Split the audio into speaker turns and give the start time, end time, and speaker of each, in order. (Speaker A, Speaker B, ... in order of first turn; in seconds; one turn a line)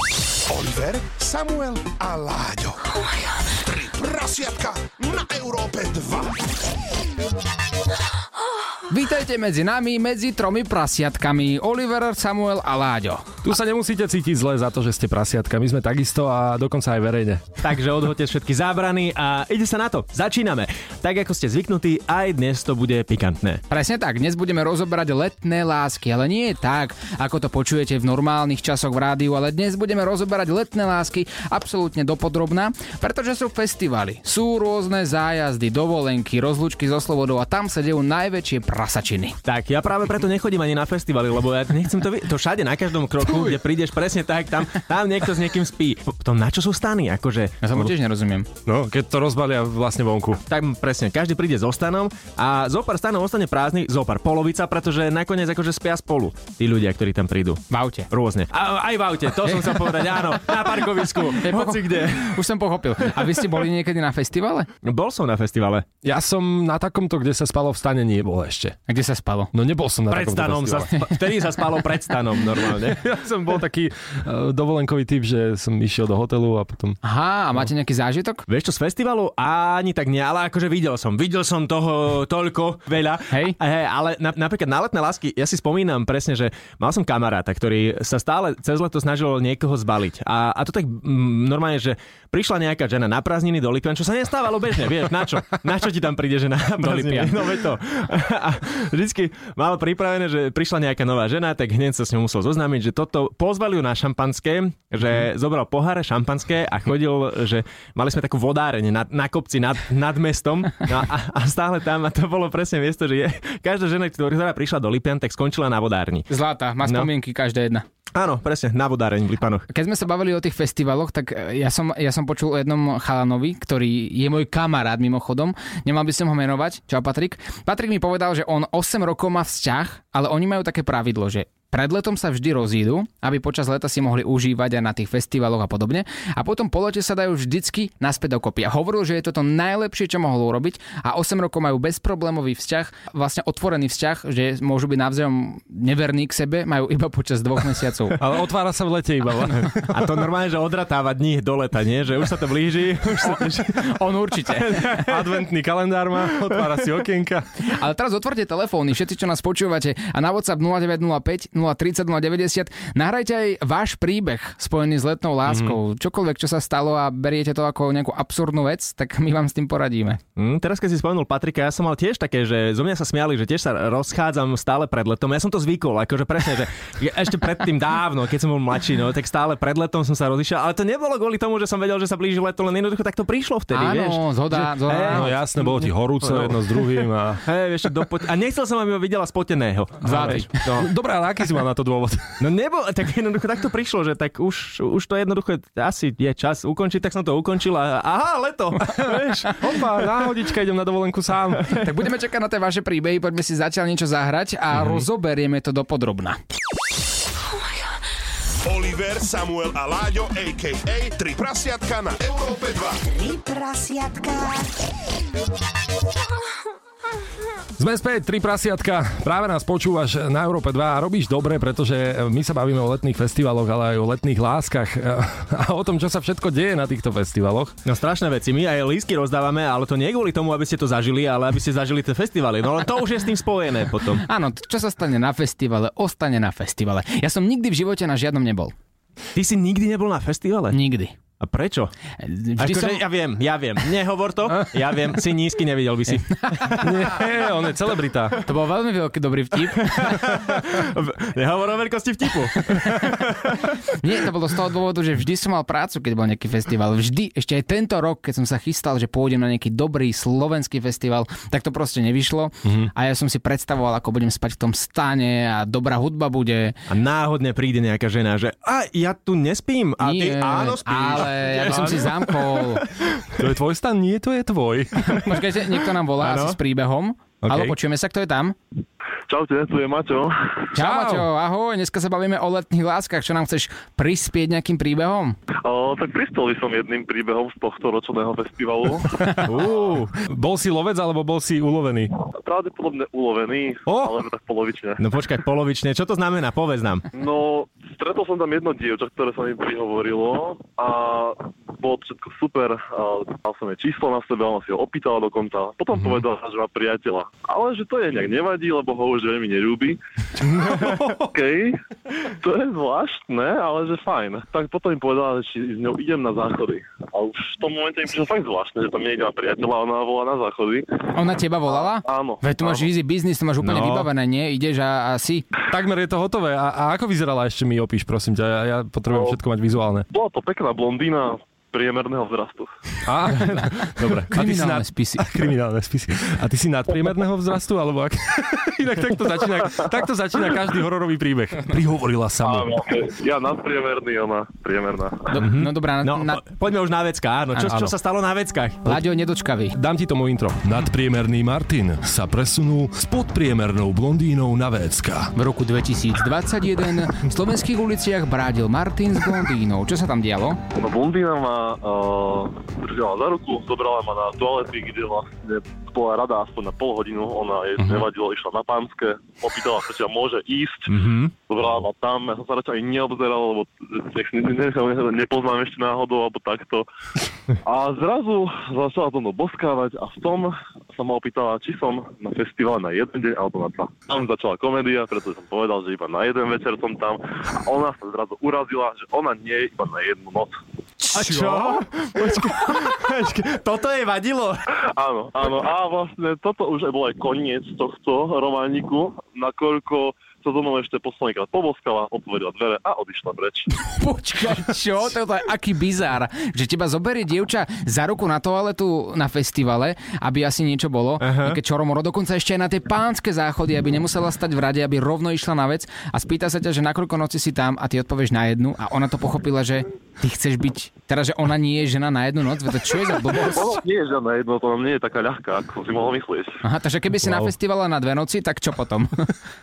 Speaker A: 0.5-2.9
Speaker A: 3.6-6.4
Speaker B: 8.9-13.2
Speaker C: 13.4-17.4
Speaker D: 17.6-23.6
Speaker B: 23.7-39.4
Speaker D: 39.5-47.9
Speaker B: 47.6-48.5
Speaker C: 48.7-50.4
Speaker D: 50.5-62.4
Speaker B: 57.7-58.1
Speaker B: 61.3-64.7
Speaker D: 64.8-65.9
Speaker C: 66.0-68.8
Speaker B: 68.9-69.5
Speaker C: 69.5-70.9
Speaker D: 70.1-73.0
Speaker C: 72.5-77.0
Speaker B: 77.0-78.5
Speaker D: 78.5-116.3
Speaker B: 83.3-83.6
Speaker B: 96.8-97.6
Speaker B: 116.3-117.8
Speaker D: 116.8-117.1
Speaker D: 118.1-119.7
Speaker B: 119.7-148.2
Speaker C: 148.2-150.2
Speaker D: 149.9-153.9
Speaker B: 153.2-155.0
Speaker D: 154.5-155.3
Speaker C: 155.1-157.4
Speaker B: 157.7-170.2
Speaker C: 165.5-165.8
Speaker D: 170.4-186.7
Speaker B: 183.7-185.3
Speaker C: 184.9-187.4
Speaker D: 187.4-190.9
Speaker B: 190.0-190.5
Speaker C: 190.0-192.4
Speaker D: 192.4-199.7
Speaker C: 198.9-201.8
Speaker B: 201.8-206.4
Speaker C: 204.8-205.1
Speaker A: 208.7-213.0
Speaker C: 217.8-227.8
Speaker D: 227.9-234.2
Speaker B: 234.2-238.7
Speaker D: 239.3-240.8
Speaker B: 240.7-241.2
Speaker D: 241.4-241.9
Speaker B: 242.2-243.0
Speaker D: 242.6-246.8
Speaker B: 246.3-246.8
Speaker C: 246.8-248.4
Speaker B: 248.5-250.3
Speaker D: 249.8-253.8
Speaker B: 252.7-253.1
Speaker B: 253.9-266.8
Speaker C: 262.6-262.9
Speaker D: 266.9-273.3
Speaker B: 270.0-272.9
Speaker C: 271.7-272.1
Speaker C: 273.4-275.4
Speaker B: 275.1-278.6
Speaker D: 276.2-276.6
Speaker C: 277.4-277.8
Speaker E: 279.3-280.6
Speaker B: 280.7-285.4
Speaker C: 280.8-281.3
Speaker E: 285.6-289.3
Speaker D: 289.5-290.1
Speaker C: 290.3-292.1
Speaker E: 292.4-295.0
Speaker C: 293.9-294.1
Speaker D: 295.0-297.1
Speaker E: 297.1-310.0
Speaker C: 310.4-311.3
Speaker E: 310.6-311.8
Speaker E: 312.3-320.9
Speaker B: 321.1-325.5
Speaker E: 321.7-322.9
Speaker D: 323.6-324.1
Speaker C: 325.7-330.1
Speaker E: 329.1-329.4
Speaker E: 330.1-332.7
Speaker C: 333.1-342.7
Speaker B: 334.0-335.3
Speaker E: 342.4-345.3
Speaker B: 345.3-346.4
Speaker D: 345.4-348.9
Speaker C: 347.7-347.9
Speaker B: 348.9-349.8
Speaker C: 349.7-355.3
Speaker B: 355.4-360.6
Speaker E: 360.8-370.9
Speaker D: 370.9-371.3
Speaker E: 371.5-376.9
Speaker E: 377.6-390.6
Speaker D: 391.1-394.6
Speaker E: 394.9-403.7
Speaker B: 403.8-423.7
Speaker D: 411.2-411.6
Speaker E: 423.3-426.6
Speaker B: 426.6-429.3
Speaker C: 427.2-427.5